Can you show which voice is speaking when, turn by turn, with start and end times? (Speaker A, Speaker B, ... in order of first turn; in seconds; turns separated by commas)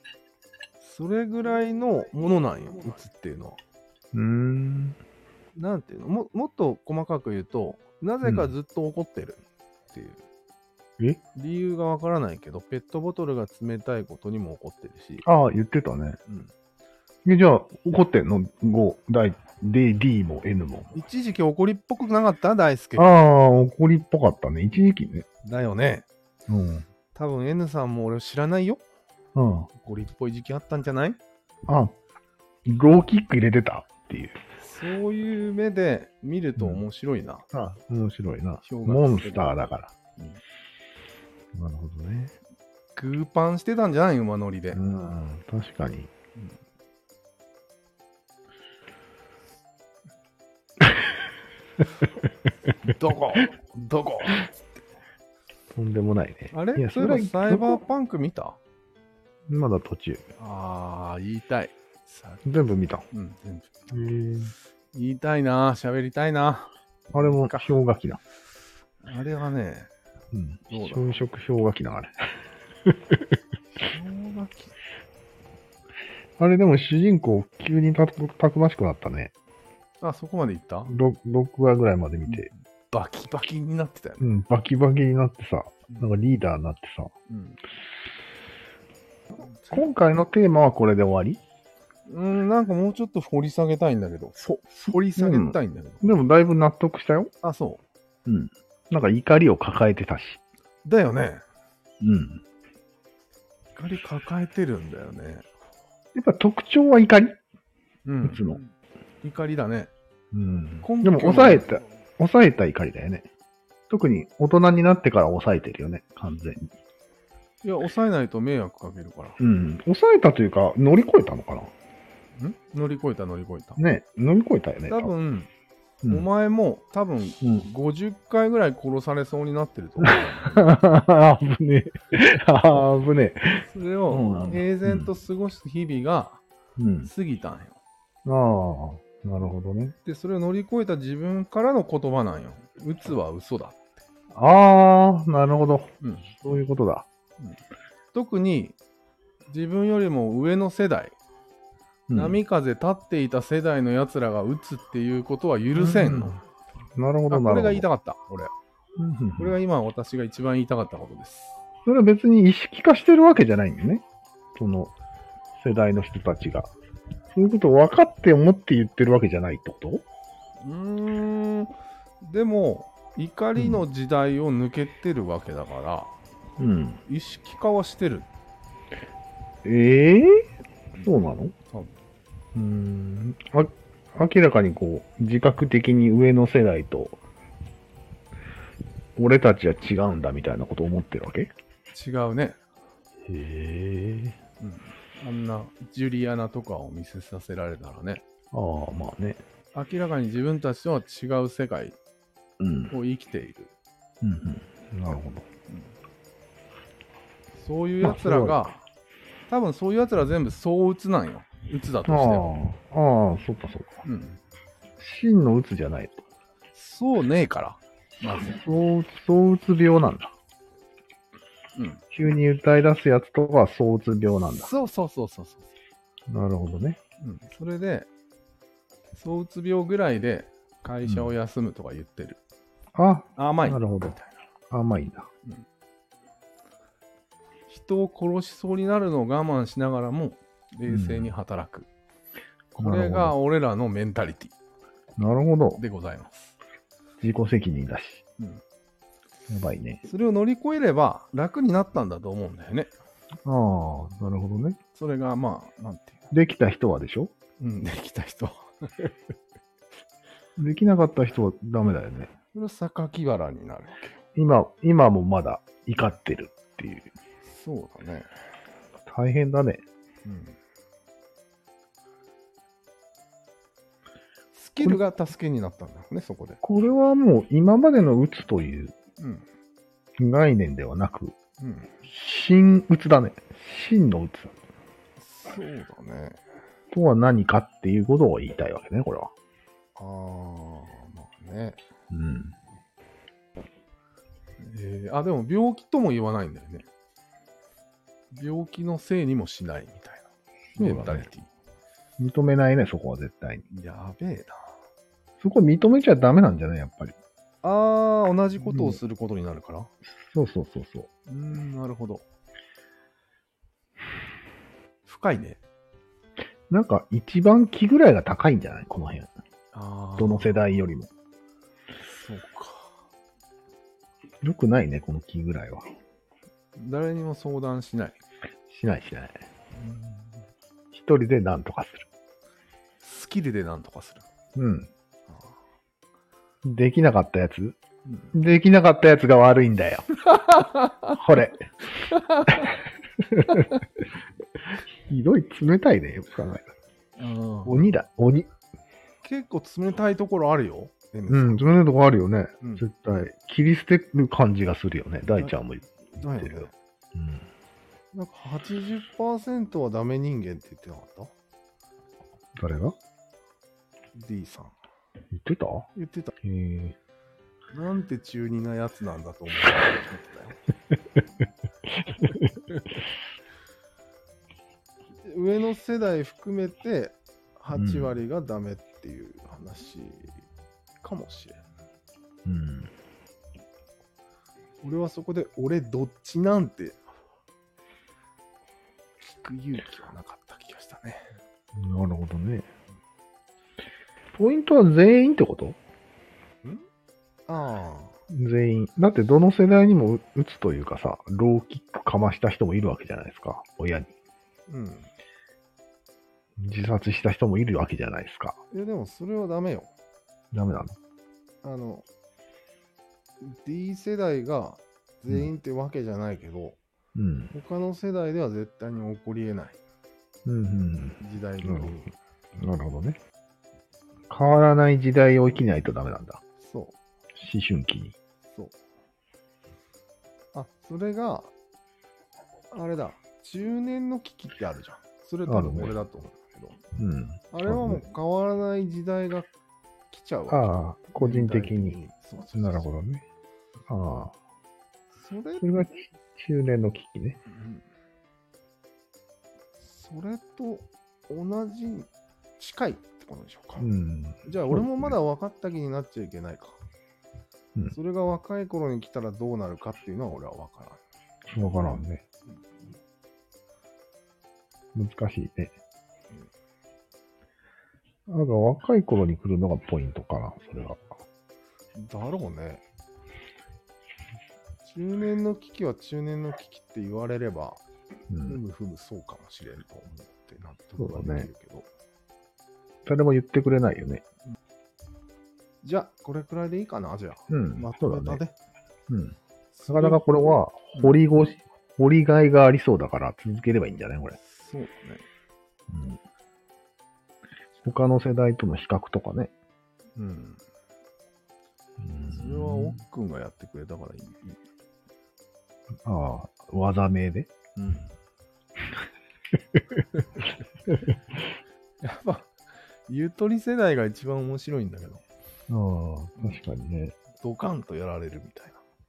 Speaker A: 0.8-3.6, Speaker B: 4.1-5.0, Speaker A: 5.5-10.2, Speaker B: 8.2-8.5, Speaker A: 11.3-15.2, Speaker B: 15.2-16.2, Speaker B: 17.2-20.9, Speaker A: 20.9-23.1, Speaker B: 22.9-25.2, Speaker A: 25.4-26.1, Speaker B: 26.5-26.9, Speaker A: 27.1-28.8, Speaker B: 29.3-29.7, Speaker A: 29.8-31.2, Speaker B: 31.7-31.9, Speaker B: 32.6-34.4, Speaker A: 34.6-37.4, Speaker B: 36.6-36.8, Speaker B: 37.5-39.9, Speaker A: 38.6-39.6, Speaker B: 41.5-42.3, Speaker A: 43.0-44.8, Speaker B: 44.7-46.1, Speaker A: 52.8-54.5, Speaker B: 55.7-57.8, Speaker A: 56.5-58.6, Speaker B: 59.5-60.2, Speaker A: 60.4-62.4, Speaker B: 62.4-63.0, Speaker A: 63.1-63.9, Speaker B: 63.9-64.5, Speaker A: 64.9-67.7, Speaker B: 67.1-68.2, Speaker A: 69.0-69.9, Speaker B: 70.3-73.2, Speaker A: 70.7-71.2, Speaker A: 73.7-74.7, Speaker B: 76.4-79.3, Speaker A: 80.0-80.9, Speaker B: 80.9-82.5, Speaker A: 82.3-84.4, Speaker B: 84.2-87.1, Speaker A: 87.3-87.6, Speaker A: 89.4-89.8, Speaker B: 89.6-91.4, Speaker A: 92.1-96.0, Speaker B: 95.1-97.3, Speaker A: 97.4-97.8, Speaker B: 98.2-100.4, Speaker A: 100.8-101.4, Speaker B: 102.0-102.4, Speaker A: 103.8-105.5, Speaker B: 106.1-107.4, Speaker A: 108.0-108.6, Speaker B: 108.2-108.6, Speaker A: 109.2-109.9, Speaker B: 110.3-113.3, Speaker A: 110.8-111.8, Speaker B: 113.9-116.7, Speaker A: 117.6-119.4, Speaker B: 119.4-121.7, Speaker A: 122.3-123.8, Speaker B: 123.8-125.1, Speaker A: 124.9-125.5, Speaker A: 126.1-130.8, Speaker B: 130.0-135.1, Speaker A: 133.6-136.4, Speaker B: 136.8-137.1, Speaker A: 137.0-137.8, Speaker B: 138.2-139.9, Speaker A: 140.0-143.9, Speaker B: 144.3-147.0, Speaker A: 146.0-146.3, Speaker A: 148.1-148.8, Speaker A: 149.5-151.1, Speaker B: 152.1-152.4, Speaker A: 152.1-156.4, Speaker B: 155.7-156.4, Speaker B: 156.9-157.8, Speaker A: 157.3-158.5, Speaker B: 159.0-159.6, Speaker A: 159.4-161.6, Speaker B: 161.8-164.0, Speaker B: 164.5-164.9, Speaker B: 165.6-166.7, Speaker B: 167.3-170.0, Speaker A: 170.6-176.1, Speaker B: 173.6-173.8, Speaker B: 176.6-177.0, Speaker A: 177.1-178.3, Speaker B: 179.6-180.5, Speaker B: 181.0-181.5, Speaker B: 182.5-187.2, Speaker B: 189.2-191.5, Speaker A: 191.9-192.6, Speaker B: 193.2-194.4, Speaker A: 194.6-198.2, Speaker B: 198.5-199.4, Speaker A: 199.7-202.0, Speaker B: 202.6-202.9, Speaker A: 202.9-203.7, Speaker B: 204.2-205.4, Speaker A: 207.6-208.8, Speaker B: 208.0-208.7, Speaker A: 209.5-212.5, Speaker B: 212.1-214.0, Speaker A: 214.0-214.4, Speaker B: 215.0-216.2, Speaker A: 216.7-218.6, Speaker B: 218.4-220.3, Speaker A: 221.8-222.0, Speaker B: 222.1-224.7, Speaker A: 224.5-225.7, Speaker B: 226.3-227.0, Speaker A: 227.2-228.1, Speaker A: 229.1-232.4, Speaker B: 231.0-231.3, Speaker B: 232.9-234.2, Speaker A: 233.4-234.4, Speaker B: 234.7-235.3, Speaker A: 237.7-241.9, Speaker B: 240.9-241.3, Speaker A: 242.7-244.5, Speaker B: 242.8-243.3, Speaker B: 245.2-245.8, Speaker A: 245.8-246.6, Speaker B: 247.2-248.2, Speaker B: 249.5-250.0, Speaker A: 250.0-252.9, Speaker B: 253.4-254.8, Speaker A: 254.9-256.3, Speaker B: 256.3-257.3, Speaker A: 257.6-259.1, Speaker B: 260.6-262.3, Speaker A: 262.5-264.2, Speaker B: 264.3-267.1, Speaker A: 267.4-268.3, Speaker B: 269.1-269.8, Speaker A: 270.2-270.6, Speaker A: 274.5-276.6, Speaker B: 276.6-278.9, Speaker A: 279.2-279.4, Speaker B: 280.2-281.3, Speaker A: 281.6-281.9, Speaker B: 282.0-284.5, Speaker A: 285.2-286.4, Speaker B: 286.9-289.3, Speaker A: 289.9-291.8, Speaker B: 292.1-292.6, Speaker A: 294.6-296.9, Speaker A: 298.3-301.5, Speaker B: 300.8-301.3, Speaker B: 302.2-303.6, Speaker A: 303.7-304.6, Speaker B: 305.4-307.1, Speaker A: 307.6-309.9, Speaker B: 308.6-309.0, Speaker B: 310.1-311.1, Speaker A: 311.3-312.2, Speaker A: 315.1-315.6, Speaker B: 316.7-319.3, Speaker A: 319.7-320.6, Speaker B: 320.2-321.1, Speaker A: 322.0-322.9, Speaker B: 324.4-325.9, Speaker A: 326.8-328.2, Speaker B: 328.7-329.4, Speaker A: 329.8-330.3, Speaker B: 330.9-332.1, Speaker A: 333.0-334.2, Speaker B: 334.5-334.9, Speaker B: 336.6-337.8, Speaker A: 338.1-338.3, Speaker B: 338.3-340.1, Speaker A: 340.2-341.2, Speaker B: 341.1-341.7, Speaker A: 342.1-342.7, Speaker B: 342.5-343.8, Speaker B: 344.7-346.7, Speaker A: 347.2-347.8, Speaker B: 347.6-348.5, Speaker A: 349.2-351.7, Speaker B: 351.3-357.5, Speaker A: 356.1-356.7, Speaker A: 358.1-361.3, Speaker B: 362.6-362.9, Speaker A: 364.1-364.7, Speaker B: 365.3-365.9, Speaker A: 365.9-366.3, Speaker B: 366.4-366.9, Speaker A: 367.7-370.6, Speaker B: 371.9-372.6, Speaker A: 375.2-380.4, Speaker B: 377.7-378.2, Speaker A: 381.0-381.6, Speaker B: 382.4-382.9, Speaker A: 384.8-387.0, Speaker A: 389.2-391.3, Speaker B: 391.7-392.7, Speaker B: 394.3-395.8, Speaker A: 397.5-398.1, Speaker B: 398.3-404.1, Speaker A: 404.7-405.1, Speaker B: 406.6-408.6, Speaker A: 408.7-409.9, Speaker B: 410.5-410.9, Speaker A: 411.6-412.0, Speaker A: 413.4-416.8, Speaker B: 417.1-417.5, Speaker A: 417.5-419.8, Speaker B: 420.4-421.9, Speaker A: 421.2-422.1, Speaker B: 422.6-423.2, Speaker B: 424.3-426.4, Speaker A: 426.6-426.9, Speaker B: 427.3-428.1, Speaker A: 428.5-428.7, Speaker A: 430.5-431.5, Speaker A: 432.7-436.8, Speaker B: 435.4-436.0, Speaker B: 436.9-438.1, Speaker A: 437.5-439.5, Speaker A: 440.1-442.9, Speaker B: 440.5-442.0, Speaker B: 442.5-443.2, Speaker B: 443.9-444.4, Speaker A: 445.1-445.7, Speaker B: 445.6-447.4, Speaker A: 447.5-447.8, Speaker A: 449.8-453.9, Speaker B: 453.8-455.1, Speaker A: 454.4-456.8, Speaker A: 457.9-461.0, Speaker B: 461.5-462.2, Speaker B: 464.9-465.7, Speaker B: 468.3-471.0, Speaker A: 471.9-472.8, Speaker A: 474.8-477.8, Speaker B: 478.3-478.6, Speaker A: 478.4-481.9, Speaker B: 481.0-481.5, Speaker B: 483.1-484.2, Speaker A: 485.8-488.5, Speaker B: 487.5-488.4, Speaker B: 489.1-489.4, Speaker A: 489.7-490.2, Speaker B: 489.9-494.4, Speaker A: 494.4-495.2, Speaker B: 495.9-496.2, Speaker B: 497.8-499.5, Speaker A: 500.2-500.6, Speaker B: 502.0-503.0, Speaker A: 502.2-504.6, Speaker B: 506.0-507.5, Speaker A: 507.8-508.1, Speaker B: 510.9-511.4, Speaker A: 512.0-512.5, Speaker A: 513.1-515.2, Speaker B: 515.7-517.1, Speaker A: 517.4-518.8